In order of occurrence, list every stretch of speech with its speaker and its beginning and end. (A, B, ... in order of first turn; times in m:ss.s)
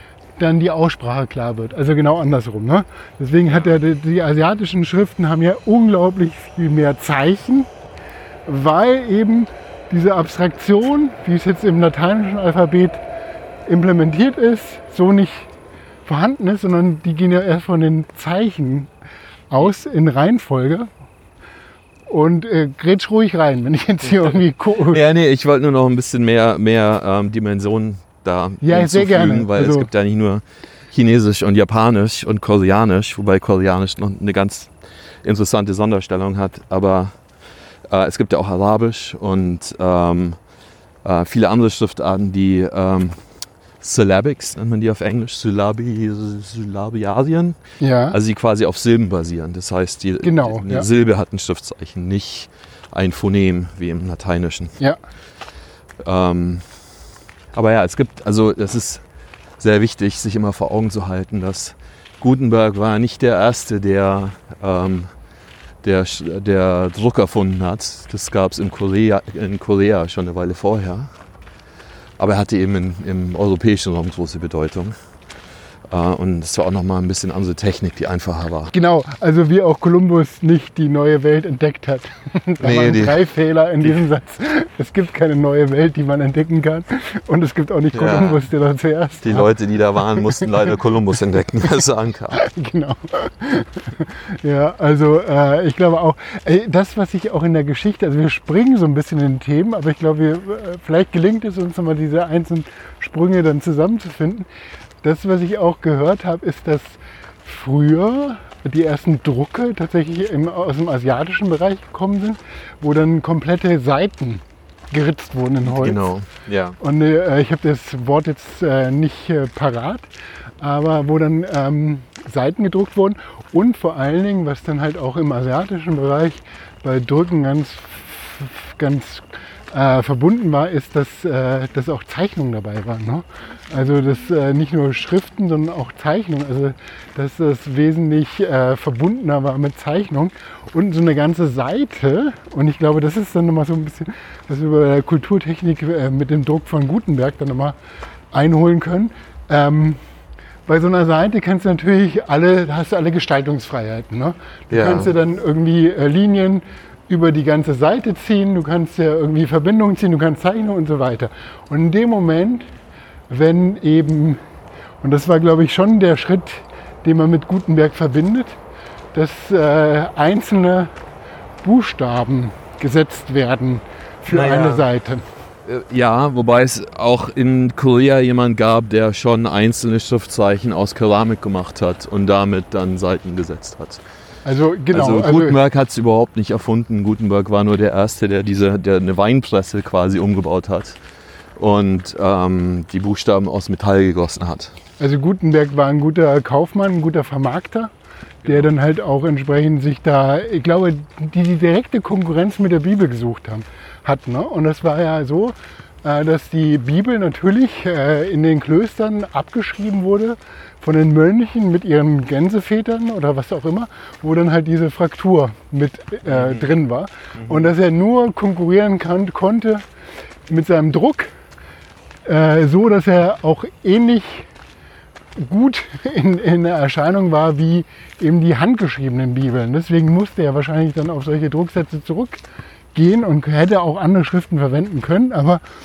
0:00.4-0:07.7 A
0:08.5-0:13.0 A
0:13.7-0:15.5 A
0:16.0-0:18.9 A
0:19.5-0:20.9 A
0:22.1-0:25.0 A
0:24.9-0:34.7 B
0:28.6-0:29.9 A
0:35.2-0:37.1 B
0:37.9-0:40.4 B
0:41.0-0:43.2 B
0:43.8-0:47.6 B
0:47.8-0:48.2 A
0:48.1-0:54.8 B
0:50.2-0:50.9 A
0:56.0-0:56.6 B
0:57.5-0:59.0 B
0:59.6-1:05.1 B
1:05.8-1:11.1 B
1:12.2-1:14.9 B
1:15.9-1:18.7 B
1:18.7-1:29.5 A
1:22.6-1:23.2 B
1:27.9-1:28.4 B
1:29.2-1:32.4 B
1:30.2-1:30.5 A
1:32.3-1:44.5 A
1:45.0-1:56.1 A
1:55.6-1:56.8 B
1:56.8-2:00.0 A
2:00.6-2:27.8 A
2:28.3-2:30.0 A
2:30.7-2:42.7 A
2:34.7-2:35.1 B
2:43.3-2:44.4 A
2:45.0-2:48.5 A
2:49.1-2:50.9 A
2:51.6-2:55.2 A
2:54.3-2:54.9 B
2:55.6-3:04.0 B
3:04.4-3:05.6 A
3:04.9-3:11.0 B
3:11.6-3:14.8 B
3:15.0-3:17.9 A
3:18.4-3:18.7 B
3:18.4-3:39.8 A
3:36.2-3:36.7 B
3:37.4-3:37.7 B
3:40.5-3:41.3 A
3:42.2-3:44.5 A
3:45.4-3:52.4 A
3:52.9-3:55.6 A